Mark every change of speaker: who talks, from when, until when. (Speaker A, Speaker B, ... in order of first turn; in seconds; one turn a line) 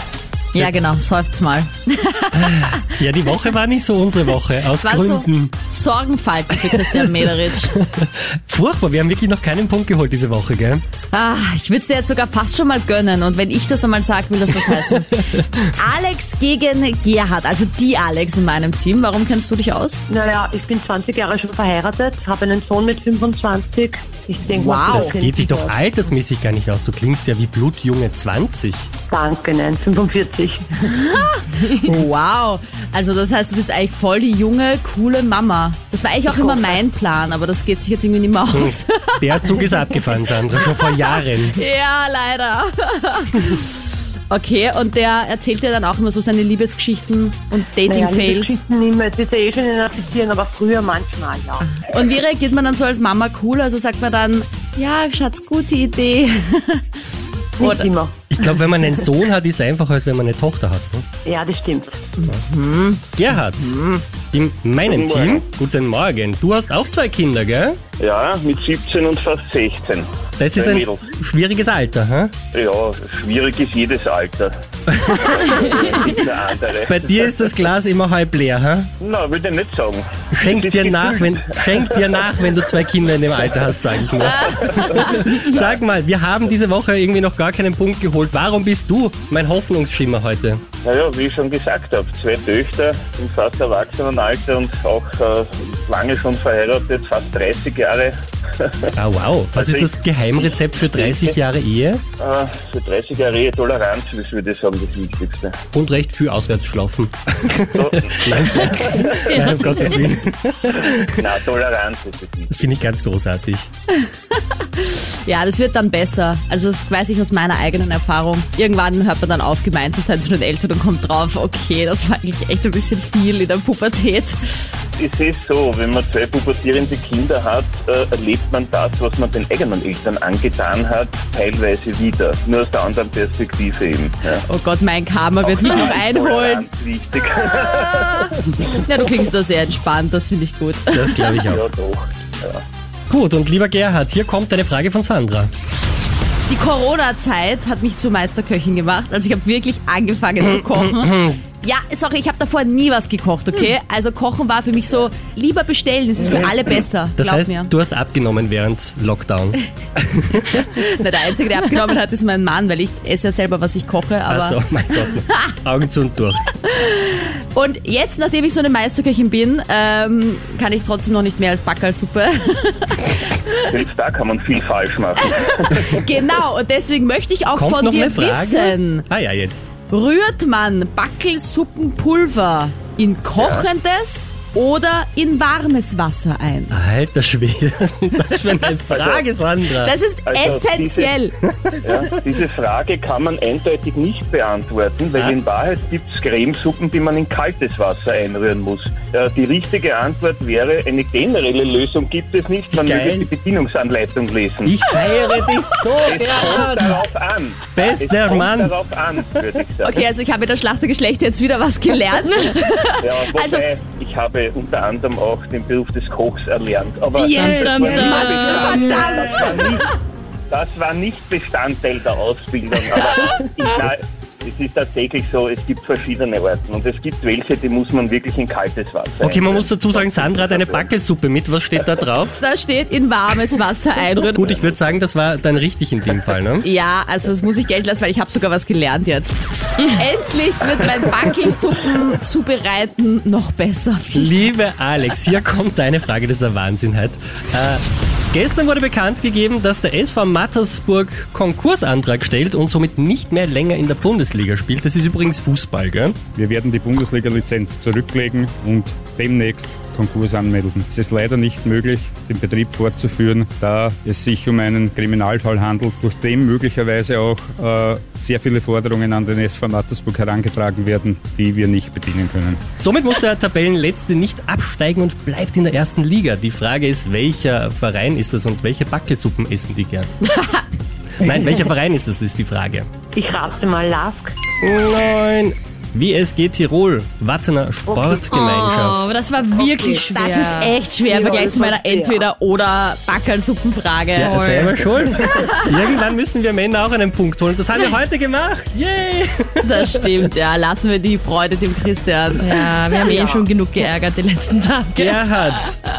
Speaker A: 0.5-2.8
Speaker B: 2.3-5.5
Speaker A: 4.8-7.7
Speaker B: 6.6-10.8
Speaker A: 11.1-20.1
Speaker C: 20.1-25.8
Speaker A: 24.5-25.1
Speaker B: 24.9-28.9
Speaker C: 29.1-30.9
Speaker A: 30.9-48.6
Speaker C: 36.3-36.6
Speaker B: 38.5-41.5
Speaker C: 47.9-51.6
Speaker A: 51.7-56.8
Speaker C: 57.6-58.2
Speaker A: 57.6-57.9
Speaker B: 58.3-61.0
Speaker C: 61.2-62.0
Speaker A: 62.2-64.0
Speaker B: 63.1-63.8
Speaker B: 64.3-67.8
Speaker D: 64.8-65.4
Speaker D: 68.0-71.1
Speaker B: 70.4-72.3
Speaker D: 72.5-77.3
Speaker B: 74.9-75.2
Speaker B: 76.9-78.9
Speaker D: 79.0-81.8
Speaker B: 80.3-90.6
Speaker A: 84.2-85.1
Speaker D: 84.4-85.7
Speaker D: 90.8-98.9
Speaker B: 98.9-102.0
Speaker D: 99.5-101.3
Speaker D: 102.2-105.6
Speaker B: 105.7-111.1
Speaker D: 107.7-109.6
Speaker E: 108.8-109.9
Speaker D: 111.1-112.6
Speaker B: 112.5-113.7
Speaker A: 114.6-124.4
Speaker D: 125.0-134.4
Speaker A: 134.4-136.7
Speaker D: 135.4-138.6
Speaker A: 138.3-141.5
Speaker B: 140.9-141.6
Speaker D: 141.5-142.6
Speaker B: 143.1-145.5
Speaker A: 146.5-157.7
Speaker B: 151.0-151.3
Speaker B: 157.2-160.6
Speaker A: 160.5-165.3
Speaker B: 164.3-166.4
Speaker A: 166.6-173.7
Speaker D: 173.7-175.9
Speaker A: 175.2-179.1
Speaker B: 177.5-179.6
Speaker A: 179.9-186.8
Speaker B: 186.7-189.9
Speaker D: 188.9-189.2
Speaker A: 189.8-191.3
Speaker D: 190.2-191.1
Speaker D: 191.8-204.9
Speaker B: 202.7-203.3
Speaker B: 204.6-207.0
Speaker D: 206.0-210.0
Speaker B: 207.7-208.7
Speaker A: 209.8-213.6
Speaker D: 213.0-219.8
Speaker A: 217.1-219.8
Speaker E: 217.2-219.2
Speaker D: 220.5-230.8
Speaker B: 229.2-232.4
Speaker A: 232.4-234.7
Speaker B: 234.3-236.7
Speaker A: 236.6-244.4
Speaker B: 244.1-256.2
Speaker F: 256.3-272.6
Speaker B: 272.8-280.1
Speaker A: 280.3-280.6
Speaker B: 281.2-282.9
Speaker C: 283.1-284.3
Speaker B: 284.6-289.1
Speaker C: 287.9-288.2
Speaker E: 288.3-290.8
Speaker C: 289.6-290.0
Speaker A: 290.1-294.4
Speaker C: 291.1-292.2
Speaker B: 294.1-300.1
Speaker E: 294.2-294.9
Speaker A: 299.6-303.9
Speaker E: 302.4-305.2
Speaker B: 304.9-305.8